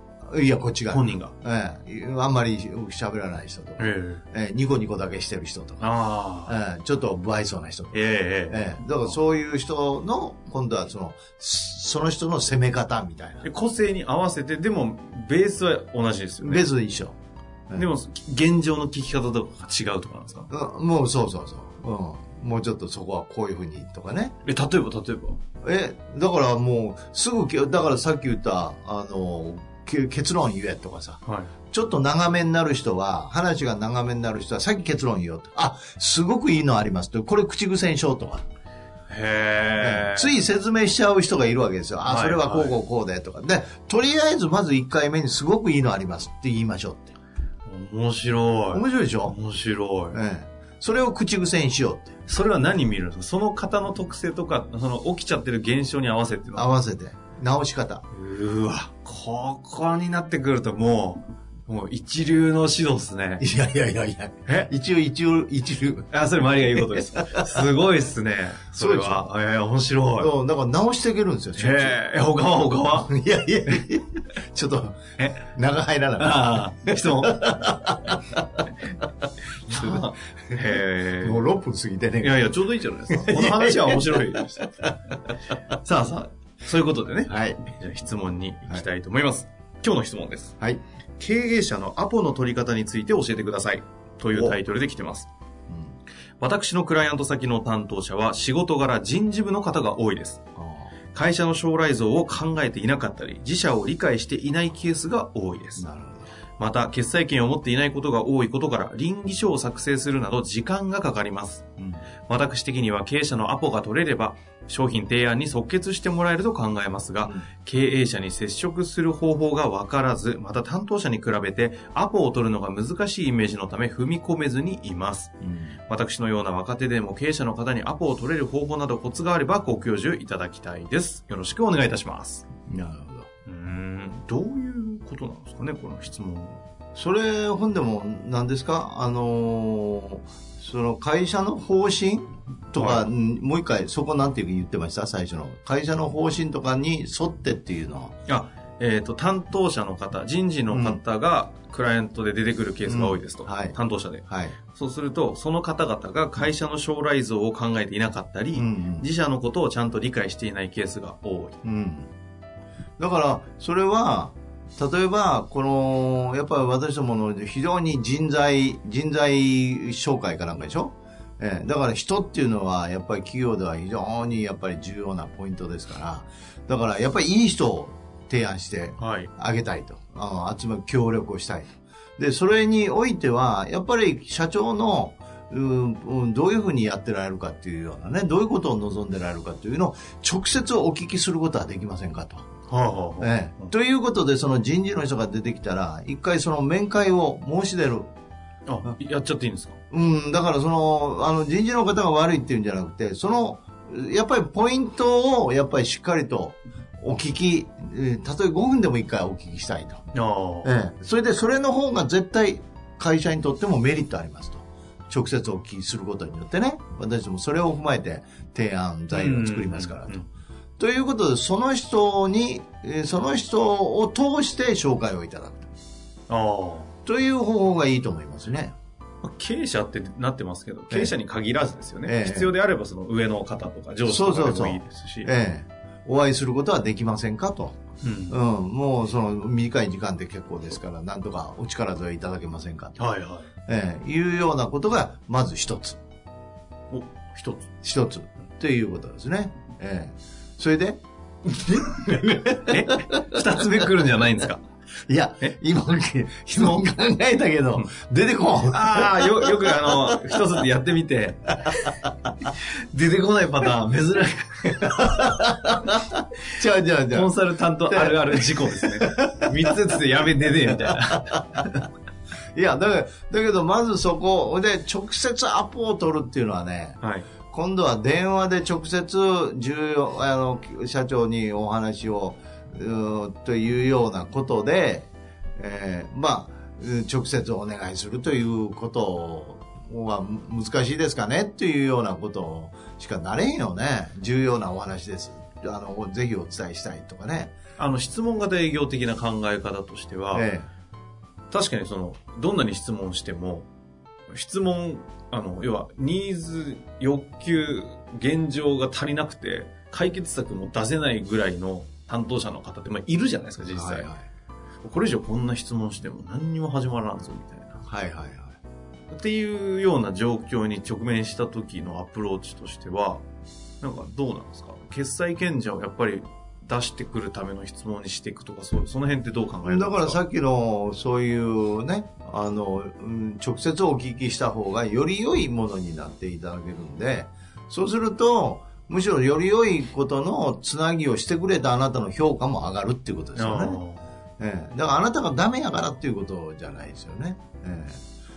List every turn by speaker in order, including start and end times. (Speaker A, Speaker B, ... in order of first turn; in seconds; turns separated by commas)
Speaker A: 0.2-5.8, Speaker B: 0.9-1.3, Speaker B: 3.8-4.2, Speaker B: 5.8-6.6, Speaker A: 6.5-13.4, Speaker B: 7.9-9.2, Speaker B: 13.4-16.7, Speaker A: 16.4-17.1, Speaker B: 17.7-20.5, Speaker A: 20.5-24.4, Speaker B: 24.4-25.4, Speaker A: 25.6-38.4, Speaker B: 31.2-31.5, Speaker B: 39.1-40.4, Speaker A: 39.8-47.1, Speaker B: 42.0-42.8, Speaker B: 47.6-50.2, Speaker A: 48.7-49.4, Speaker A: 50.1-52.1, Speaker B: 52.2-56.7, Speaker A: 56.5-58.0, Speaker B: 58.1-63.4, Speaker A: 63.4-67.7, Speaker B: 64.5-64.7, Speaker B: 66.1-70.3, Speaker A: 68.8-69.2, Speaker A: 70.2-72.0, Speaker B: 71.5-73.1, Speaker A: 72.9-78.7, Speaker B: 75.2-75.4, Speaker B: 76.2-77.8, Speaker B: 79.7-81.4, Speaker A: 79.7-82.5, Speaker B: 82.2-84.8, Speaker A: 83.1-84.9, Speaker B: 85.7-90.5, Speaker A: 87.3-87.6, Speaker B: 91.2-95.3, Speaker A: 94.3-94.6, Speaker A: 95.7-95.9, Speaker B: 96.4-100.4, Speaker A: 100.5-100.9, Speaker B: 101.1-105.8, Speaker A: 105.8-106.3, Speaker B: 106.6-111.7, Speaker A: 111.8-112.0, Speaker B: 112.3-125.3, Speaker A: 125.4-125.8, Speaker B: 125.9-132.4, Speaker A: 132.7-133.3, Speaker B: 133.4-136.6, Speaker A: 136.9-148.1, Speaker B: 142.7-143.1, Speaker B: 148.2-161.6, Speaker A: 150.7-151.0, Speaker A: 152.8-154.6, Speaker A: 158.5-159.1, Speaker A: 161.6-162.1, Speaker A: 163.0-192.4, Speaker B: 179.0-179.3, Speaker B: 192.7-193.7, Speaker A: 193.2-198.1, Speaker B: 198.7-199.8, Speaker A: 199.9-210.0, Speaker B: 210.1-210.7, Speaker A: 210.6-220.2, Speaker B: 219.1-220.3, Speaker A: 220.8-225.7, Speaker B: 226.3-226.9, Speaker A: 227.0-228.7, Speaker B: 229.2-235.3, Speaker A: 232.0-232.5, Speaker A: 234.1-237.7, Speaker B: 238.0-238.4, Speaker A: 238.3-243.0, Speaker B: 243.0-243.5, Speaker A: 243.7-246.0, Speaker B: 246.9-247.7, Speaker A: 247.8-253.4, Speaker B: 252.6-254.6, Speaker A: 255.1-260.2, Speaker B: 258.7-265.3, Speaker A: 264.8-269.7, Speaker B: 267.1-271.8, Speaker A: 270.8-271.6, Speaker A: 272.5-277.0, Speaker B: 277.0-277.3, Speaker A: 277.5-297.5, Speaker B: 297.8-300.5, Speaker A: 300.3-300.7, Speaker B: 301.5-303.7, Speaker B: 304.3-314.1, Speaker A: 313.7-314.2, Speaker B: 314.8-317.8, Speaker A: 317.9-318.6, Speaker B: 319.1-323.2, Speaker B: 323.8-330.2, Speaker A: 329.6-343.8, Speaker B: 343.3-344.1, Speaker A: 344.4-348.0